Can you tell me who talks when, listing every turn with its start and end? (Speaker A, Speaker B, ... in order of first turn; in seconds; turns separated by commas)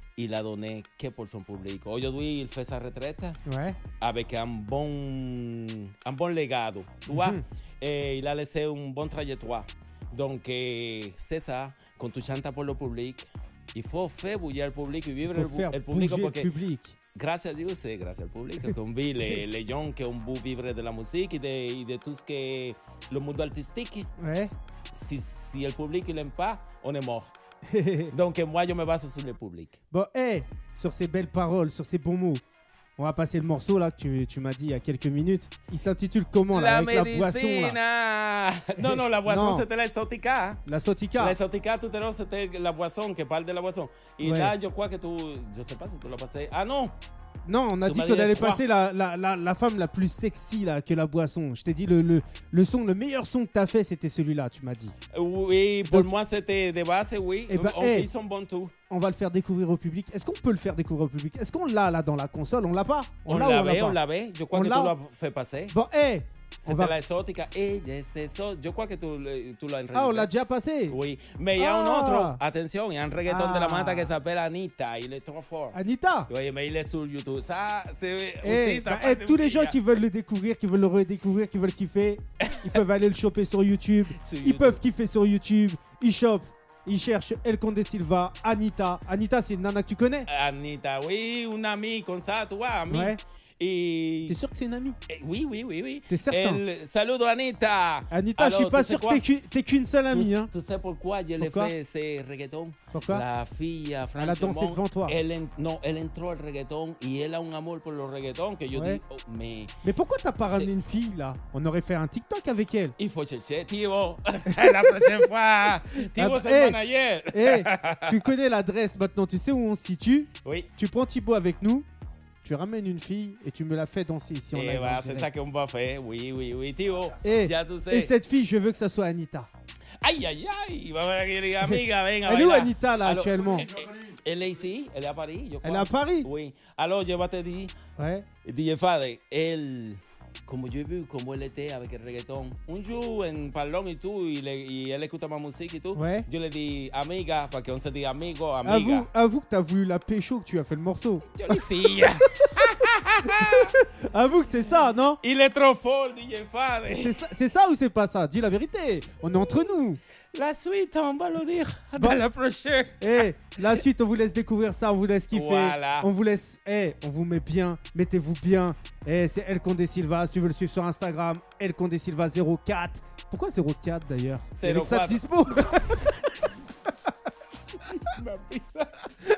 Speaker A: 0.2-3.4, Speaker B: 3.5-3.8, Speaker A: 4.0-16.5, Speaker B: 7.1-7.4, Speaker B: 15.3-16.9, Speaker A: 17.1-24.1, Speaker B: 24.2-24.5, Speaker A: 24.9-27.3, Speaker B: 27.7-28.1, Speaker A: 28.1-29.8, Speaker B: 29.9-32.4, Speaker B: 33.0-37.8, Speaker A: 36.5-40.6, Speaker B: 38.8-39.7, Speaker B: 40.7-41.4, Speaker A: 41.2-46.9, Speaker B: 44.2-44.5, Speaker B: 47.5-55.0, Speaker A: 47.9-48.6, Speaker A: 55.1-58.7, Speaker B: 57.5-58.1, Speaker B: 58.9-64.0, Speaker A: 63.3-65.7, Speaker B: 64.5-64.9, Speaker B: 65.7-67.0, Speaker A: 66.6-70.3, Speaker B: 69.9-71.0, Speaker A: 70.9-75.8, Speaker B: 71.6-72.4, Speaker B: 73.3-74.1, Speaker B: 75.7-76.3, Speaker A: 76.3-79.8, Speaker B: 78.4-90.3, Speaker A: 84.2-84.8, Speaker A: 90.3-94.4, Speaker B: 92.9-93.2, Speaker B: 94.3-95.0, Speaker A: 95.1-99.2, Speaker B: 96.1-96.6, Speaker B: 98.1-100.5, Speaker A: 100.1-109.7, Speaker B: 101.4-101.7, Speaker B: 102.9-103.2, Speaker B: 104.2-105.2, Speaker B: 108.7-109.0, Speaker B: 109.8-113.0, Speaker A: 110.4-110.7, Speaker A: 113.0-118.2, Speaker B: 114.5-115.1, Speaker B: 116.1-116.8, Speaker B: 117.3-121.9, Speaker B: 122.4-125.3, Speaker A: 124.5-128.1, Speaker B: 127.2-129.5, Speaker A: 130.0-137.7, Speaker B: 132.2-133.7, Speaker B: 135.6-136.3, Speaker B: 138.0-138.3, Speaker A: 138.4-149.1, Speaker B: 145.9-146.3, Speaker B: 148.7-151.6, Speaker A: 151.3-153.7, Speaker B: 152.4-155.2, Speaker A: 155.2-157.2, Speaker B: 156.9-160.0, Speaker A: 160.3-163.2, Speaker B: 162.0-162.2, Speaker B: 163.0-176.3, Speaker A: 165.3-166.1, Speaker A: 174.6-176.1, Speaker A: 177.7-179.1